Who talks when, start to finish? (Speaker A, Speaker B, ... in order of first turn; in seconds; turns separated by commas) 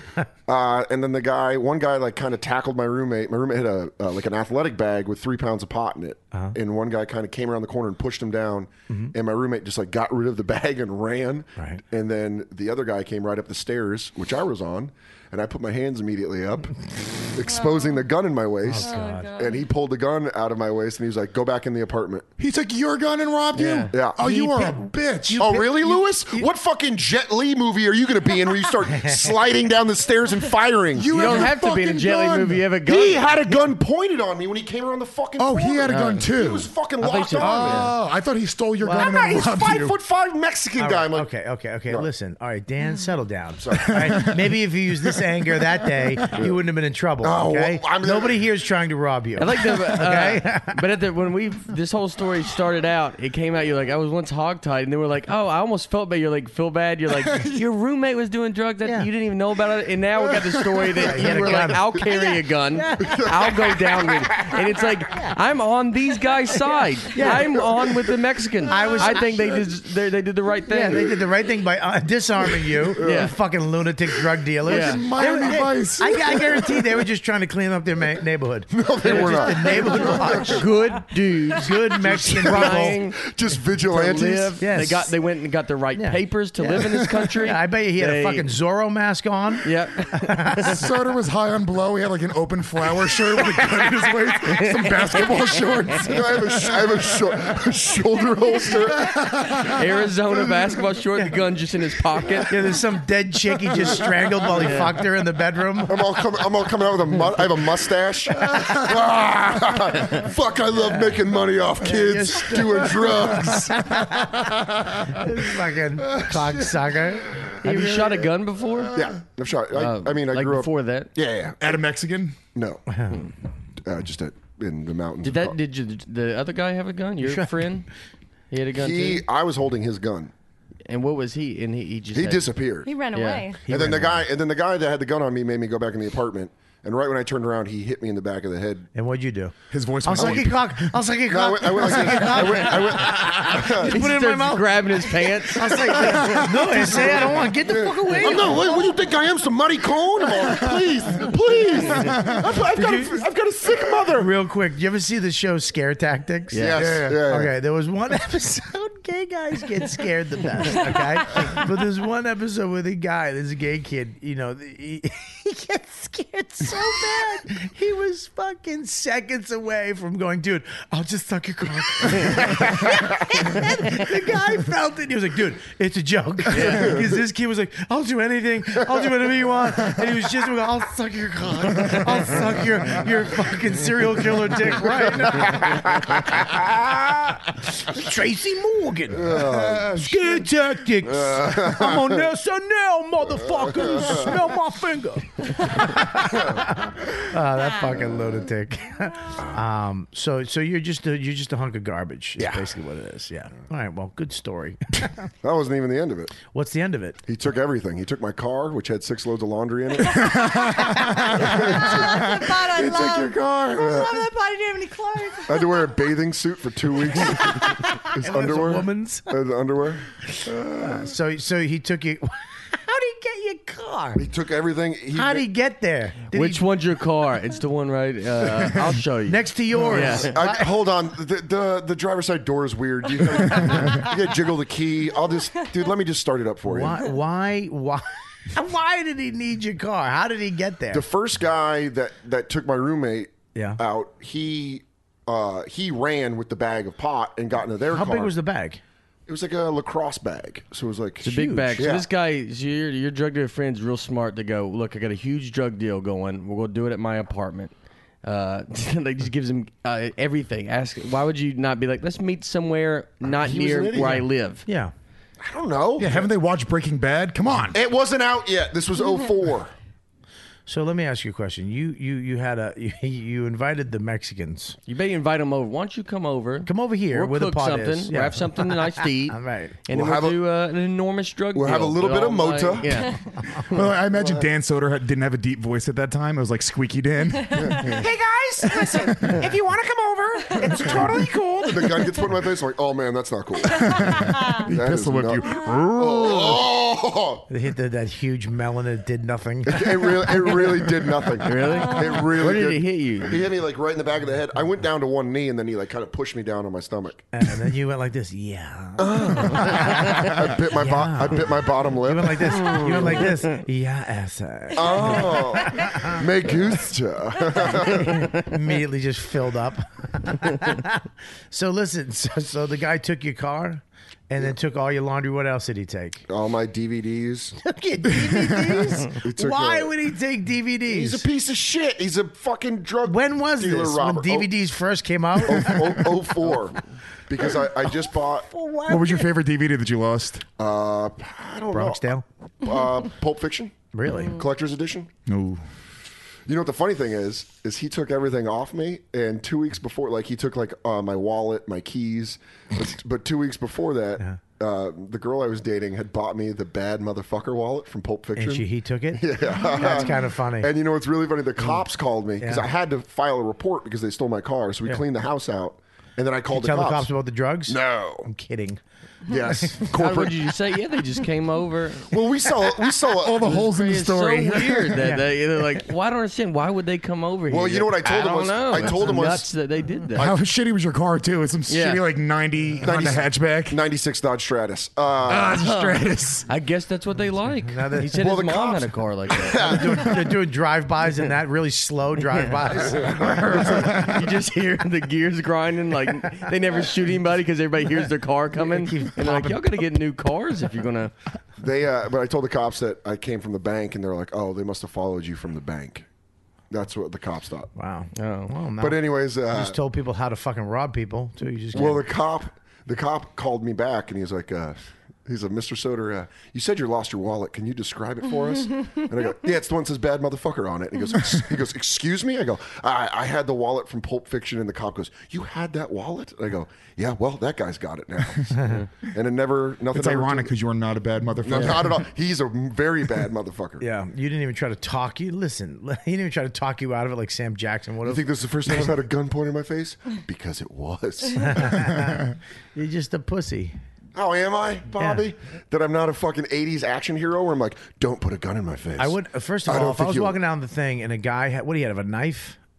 Speaker A: 0.5-16.7, Speaker A: 17.3-22.3, Speaker B: 17.5-18.0, Speaker C: 18.6-19.3, Speaker B: 18.8-19.5, Speaker D: 22.4-25.6, Speaker E: 23.6-23.9, Speaker A: 23.9-24.2, Speaker C: 24.2-26.5, Speaker A: 25.4-31.5, Speaker C: 28.9-29.3, Speaker D: 30.9-32.7, Speaker E: 31.1-33.2, Speaker A: 32.9-37.9, Speaker D: 35.4-36.7, Speaker E: 35.9-36.3, Speaker E: 37.0-37.9, Speaker D: 37.4-40.0, Speaker A: 39.0-41.3, Speaker C: 40.8-50.8, Speaker A: 43.6-44.3, Speaker D: 43.9-44.5, Speaker A: 47.2-48.4, Speaker E: 49.4-71.1, Speaker C: 58.8-59.1, Speaker C: 61.0-63.3, Speaker A: 61.4-61.8, Speaker A: 63.1-63.9, Speaker C: 65.1-65.4, Speaker C: 67.1-67.6, Speaker C: 68.7-69.6, Speaker C: 70.7-83.0, Speaker A: 72.8-73.3, Speaker E: 73.0-73.3, Speaker E: 74.7-75.0, Speaker D: 74.7-76.8, Speaker A: 78.7-80.7, Speaker E: 79.0-83.2, Speaker A: 82.0-84.6, Speaker E: 83.8-88.5, Speaker C: 84.6-85.1, Speaker C: 85.9-90.8, Speaker E: 89.6-90.7, Speaker D: 90.6-97.4, Speaker E: 94.5-96.0, Speaker A: 96.0-99.3, Speaker D: 98.7-99.7, Speaker E: 99.6-102.6, Speaker C: 102.5-106.1, Speaker A: 103.8-104.6, Speaker E: 104.5-104.9, Speaker A: 105.8-113.8, Speaker D: 108.5-108.9, Speaker C: 111.8-118.3, Speaker D: 113.7-115.2, Speaker E: 117.6-118.9, Speaker D: 118.8-119.2, Speaker A: 118.9-121.8, Speaker E: 119.7-121.1, Speaker D: 121.6-122.4, Speaker A: 122.5-122.8, Speaker C: 122.9-123.2, Speaker A: 123.8-125.6, Speaker E: 125.2-127.9, Speaker C: 127.2-127.7, Speaker E: 128.5-129.2, Speaker A: 128.7-130.3, Speaker E: 130.9-132.5, Speaker A: 132.1-132.9, Speaker B: 132.8-133.6, Speaker E: 133.1-133.4, Speaker C: 133.7-134.3, Speaker A: 133.7-138.9, Speaker C: 139.0-139.5, Speaker D: 139.7-141.0, Speaker C: 140.1-148.8, Speaker A: 140.1-140.5, Speaker A: 141.3-144.1, Speaker E: 143.8-146.4, Speaker A: 146.2-154.3, Speaker D: 150.5-150.8, Speaker D: 151.9-152.5, Speaker C: 152.1-153.2, Speaker C: 154.2-186.6, Speaker E: 156.5-156.8, Speaker A: 156.6-157.5, Speaker D: 156.8-157.2, Speaker E: 176.5-176.9, Speaker A: 176.6-177.1, Speaker A: 185.4-186.2, Speaker C: 187.8-205.3, Speaker A: 189.2-190.0, Speaker D: 189.3-190.4, Speaker A: 191.1-192.2, Speaker A: 193.5-194.4, Speaker A: 196.3-196.6, Speaker A: 202.4-202.7, Speaker A: 205.4-206.3, Speaker C: 206.5-207.2, Speaker A: 207.3-210.7, Speaker D: 210.3-213.8, Speaker B: 210.7-210.9, Speaker A: 211.3-212.4, Speaker B: 211.8-216.0, Speaker A: 213.7-214.2, Speaker A: 215.4-220.0, Speaker C: 218.2-219.3, Speaker C: 220.3-224.3, Speaker A: 224.2-225.5, Speaker C: 225.2-226.6, Speaker E: 226.3-230.4, Speaker C: 229.3-230.7, Speaker A: 229.9-237.0, Speaker D: 233.6-233.8, Speaker C: 236.7-241.0, Speaker A: 240.9-248.4, Speaker C: 243.6-243.8, Speaker C: 247.9-248.8, Speaker A: 249.3-252.1, Speaker C: 251.2-251.8, Speaker E: 251.2-257.7, Speaker E: 258.2-264.6, Speaker A: 263.2-264.2, Speaker C: 264.7-264.9, Speaker A: 265.4-266.3, Speaker D: 266.0-267.8, Speaker A: 267.7-269.7, Speaker C: 270.7-274.8, Speaker E: 274.9-283.2, Speaker C: 276.6-279.8, Speaker A: 279.9-280.4, Speaker A: 281.6-283.1, Speaker D: 283.7-288.0, Speaker A: 284.2-284.4, Speaker A: 287.6-288.0, Speaker F: 287.9-292.1, Speaker A: 290.9-294.2, Speaker D: 293.7-296.6, Speaker B: 294.2-294.5, Speaker A: 294.7-297.4, Speaker C: 297.5-300.8, Speaker A: 299.7-307.3, Speaker E: 301.4-303.4, Speaker B: 301.9-302.2, Speaker C: 307.3-316.5, Speaker A: 309.0-313.2, Speaker A: 314.7-318.4, Speaker C: 317.6-326.2, Speaker A: 326.3-327.6, Speaker C: 327.6-331.2, Speaker D: 328.1-328.9, Speaker A: 329.1-329.9, Speaker A: 330.9-334.5, Speaker C: 333.1-336.2, Speaker A: 335.4-336.8, Speaker A: 337.3-338.5, Speaker C: 338.5-339.2, Speaker D: 338.9-340.5, Speaker A: 340.6-342.1, Speaker C: 341.7-342.2, Speaker A: 342.6-345.1, Speaker C: 343.9-344.4, Speaker D: 345.3-345.6, Speaker A: 346.5-367.1, Speaker C: 358.4-360.7, Speaker C: 362.4-362.7, Speaker C: 366.5-368.8, Speaker A: 367.7-368.3, Speaker A: 369.3-370.4, Speaker C: 369.3-369.9, Speaker E: 369.9-372.1, Speaker A: 372.1-373.7, Speaker D: 373.1-375.0, Speaker E: 373.5-380.4, Speaker C: 375.0-375.3, Speaker A: 377.5-379.5, Speaker D: 380.2-383.8, Speaker E: 381.7-382.0, Speaker A: 382.8-385.6, Speaker D: 385.3-386.5, Speaker E: 385.6-389.8, Speaker C: 387.7-388.2, Speaker A: 388.2-390.2, Speaker C: 389.6-394.1, Speaker E: 392.3-401.1, Speaker C: 398.6-399.9, Speaker A: 401.6-406.1, Speaker A: 406.7-407.7, Speaker C: 407.8-412.1, Speaker E: 408.1-408.5, Speaker A: 408.8-409.8, Speaker A: 411.7-430.5, Speaker D: 429.9-432.1, Speaker A: 431.4-433.8, Speaker C: 433.8-438.9, Speaker A: 438.0-441.9, Speaker C: 441.4-443.8, Speaker A: 444.1-450.4, Speaker C: 445.0-445.2, Speaker C: 449.0-452.6